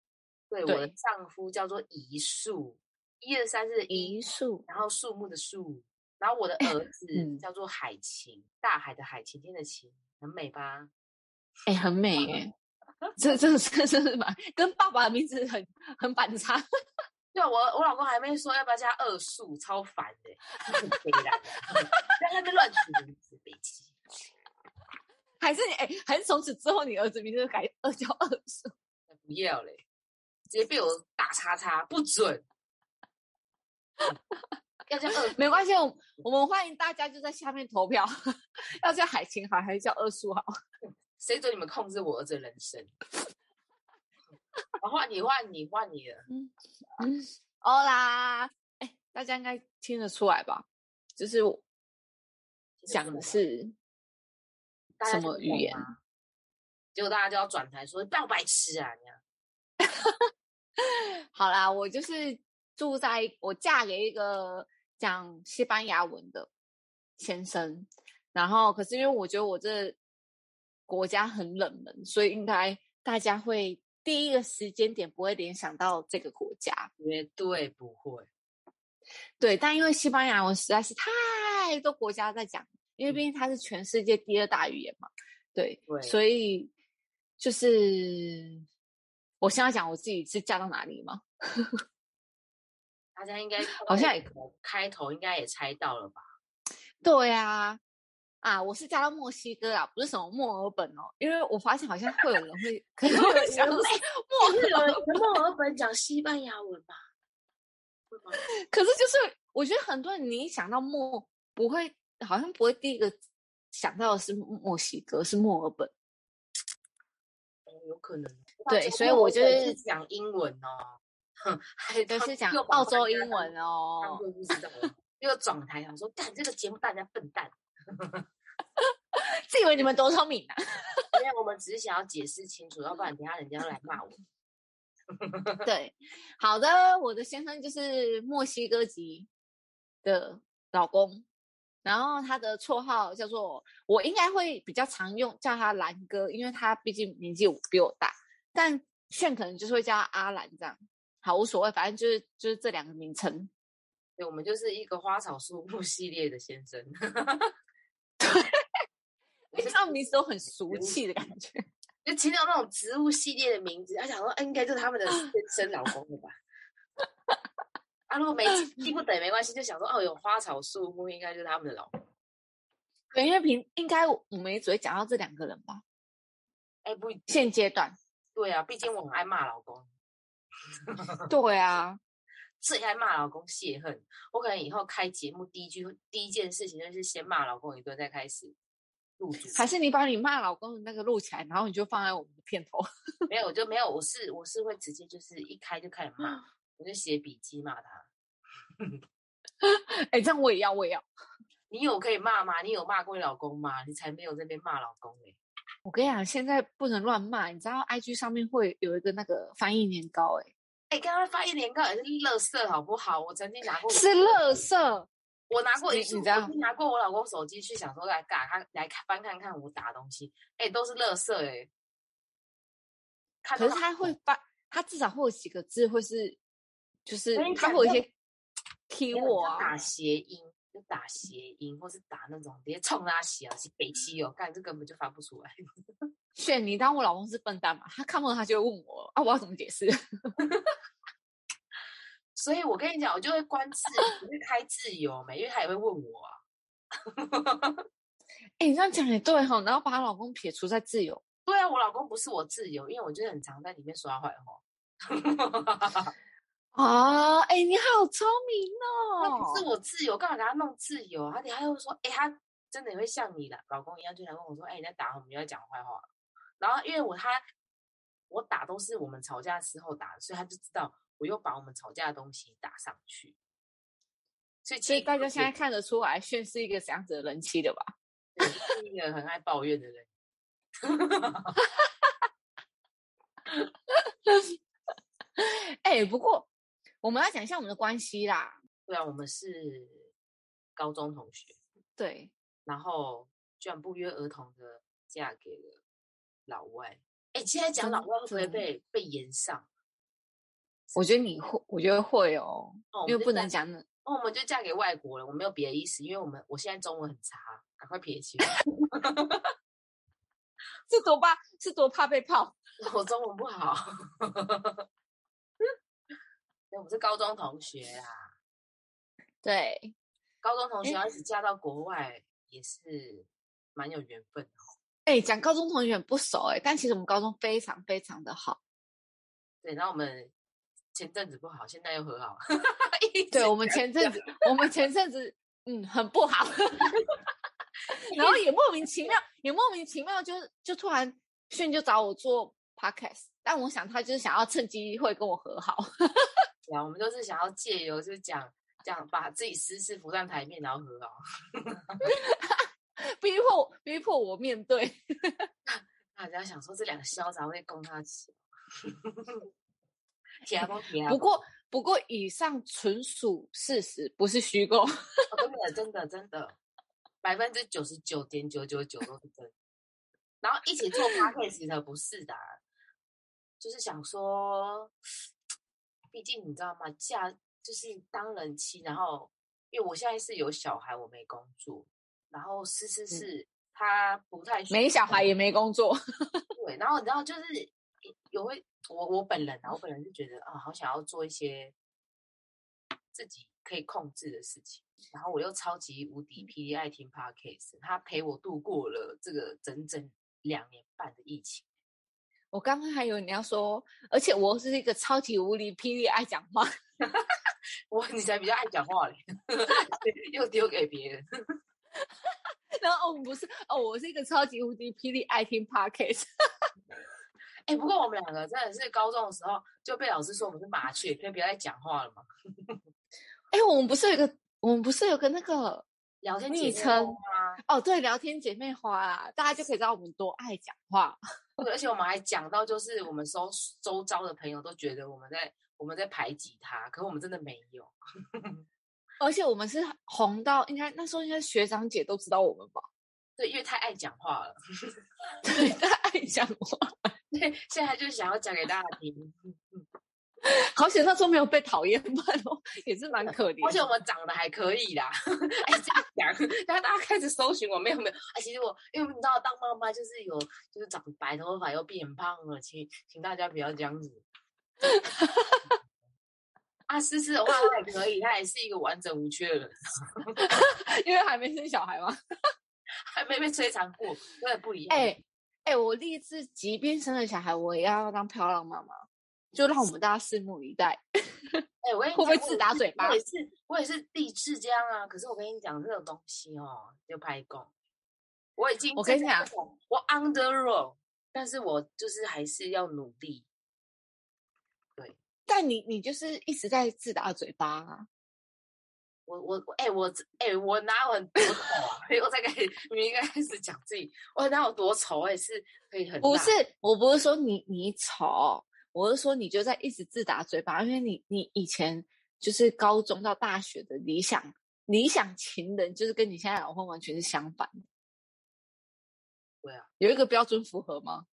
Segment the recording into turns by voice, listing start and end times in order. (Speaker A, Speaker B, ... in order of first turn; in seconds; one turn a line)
Speaker A: 0.5-10.9
Speaker B: 0.7-0.9
Speaker B: 3.9-4.6
Speaker B: 6.6-7.4
Speaker B: 11.7-12.5
Speaker B: 13.2-16.6
Speaker A: 17.3-23.9
Speaker B: 25.4-28.7
Speaker A: 29.1-29.8
Speaker A: 30.5-32.4
Speaker A: 34.9-35.8
Speaker B: 35.1-38.1
Speaker B: 38.8-40.5
Speaker A: 41.2-42.9
Speaker A: 44.8-46.3
Speaker B: 46.3-50.6
Speaker B: 51.2-51.6
Speaker A: 52.8-53.4
Speaker B: 52.9-53.7
Speaker A: 55.0-56.0
Speaker B: 55.0-55.9
Speaker A: 56.9-59.2
Speaker B: 59.8-60.3
Speaker B: 60.8-66.5
Speaker B: 67.2-70.0
Speaker B: 70.9-76.9
Speaker A: 77.0-78.3
Speaker B: 79.4-86.7
Speaker A: 85.9-86.2
Speaker B: 87.4-88.6
Speaker B: 89.4-91.8
Speaker A: 93.1-96.2
Speaker B: 93.8-94.2
Speaker B: 97.0-97.8
Speaker B: 98.4-105.3
Speaker A: 103.1-107.0
Speaker A: 108.1-108.4
Speaker B: 108.7-113.1
Speaker B: 113.7-115.9
Speaker A: 117.7-128.2
Speaker B: 118.7-119.8
Speaker B: 122.0-124.2
Speaker B: 128.8-131.1
Speaker A: 131.1-134.2
Speaker A: 135.2-135.7
Speaker B: 135.7-139.3
Speaker B: 140.0-141.2
Speaker B: 141.8-153.5
Speaker A: 154.2-157.5
Speaker B: 158.2-158.5
Speaker A: 159.5-160.1
Speaker B: 159.5-161.6
Speaker A: 160.7-161.0
Speaker A: 162.0-166.3
Speaker A: 168.1-171.9
Speaker B: 173.1-175.8
Speaker A: 176.8-177.2
Speaker B: 177.3-177.9
Speaker A: 178.3-179.9
Speaker A: 180.9-181.2
Speaker B: 181.3-182.0
Speaker A: 182.6-188.5
Speaker A: 189.2-189.6
Speaker B: 189.5-192.8
Speaker A: 193.3-198.1
Speaker B: 199.6-201.0
Speaker A: 201.7-205.4
Speaker B: 205.8-210.5
Speaker A: 210.9-214.7
Speaker B: 213.9-215.1
Speaker A: 215.5-221.7
Speaker B: 215.9-216.5
Speaker A: 223.4-224.1
Speaker B: 223.6-226.4
Speaker B: 227.1-228.1
Speaker A: 227.3-228.0
Speaker B: 228.9-229.7
Speaker A: 229.1-235.5
Speaker B: 236.4-239.9
Speaker A: 240.4-240.7
Speaker A: 242.3-246.3
Speaker A: 247.2-247.8
Speaker B: 248.6-251.2
Speaker A: 251.4-256.1
Speaker B: 256.7-259.6
Speaker A: 259.2-266.1
Speaker A: 266.6-267.4
Speaker A: 268.3-273.4
Speaker A: 274.6-275.5
Speaker B: 274.9-277.9
Speaker A: 278.3-280.1
Speaker A: 280.8-281.6
Speaker B: 284.0-284.5
Speaker B: 285.4-286.5
Speaker B: 287.0-288.6
Speaker A: 288.9-290.1
Speaker A: 290.8-291.6
Speaker B: 292.0-292.3
Speaker A: 292.6-295.8
Speaker A: 296.5-299.7
Speaker B: 297.8-298.6
Speaker B: 300.9-303.8
Speaker A: 302.9-303.5
Speaker A: 304.0-309.4
Speaker B: 310.9-312.6
Speaker A: 312.8-314.8
Speaker A: 316.7-318.3
Speaker B: 319.4-319.9
Speaker A: 320.4-324.7
Speaker B: 325.1-328.6
Speaker A: 329.6-330.3
Speaker A: 330.9-334.3
Speaker B: 333.3-336.9
Speaker B: 337.9-346.4
Speaker A: 338.1-338.4
Speaker A: 346.7-352.1
Speaker B: 352.0-355.5
Speaker A: 355.7-359.5
Speaker A: 360.4-361.4
Speaker B: 361.1-365.3
Speaker A: 365.3-366.6
Speaker A: 367.2-369.5
Speaker A: 370.4-372.6
Speaker A: 373.6-374.9
Speaker A: 376.1-385.3
Speaker B: 384.7-386.5
Speaker A: 386.6-387.7
Speaker A: 388.3-391.7
Speaker A: 393.1-401.6
Speaker B: 402.5-406.7
Speaker A: 407.9-411.2
Speaker B: 412.8-416.2
Speaker A: 417.7-422.8
Speaker B: 423.5-425.9
Speaker A: 426.2-427.6
Speaker B: 426.5-431.2
Speaker A: 431.6-438.6
Speaker B: 439.2-442.8
Speaker A: 443.4-444.6
Speaker B: 445.4-447.1
Speaker A: 447.3-449.8
Speaker B: 450.4-453.8
Speaker A: 453.2-464.2
Speaker B: 464.8-465.8
Speaker A: 466.9-470.4
Speaker B: 470.4-472.2
Speaker A: 473.1-475.1
Speaker B: 474.9-478.9
Speaker B: 479.5-483.2
Speaker A: 481.8-487.7
Speaker A: 488.6-493.5
Speaker B: 488.9-489.5
Speaker B: 495.5-498.1
Speaker A: 499.3-506.5
Speaker B: 506.2-517.7
Speaker B: 520.0-521.2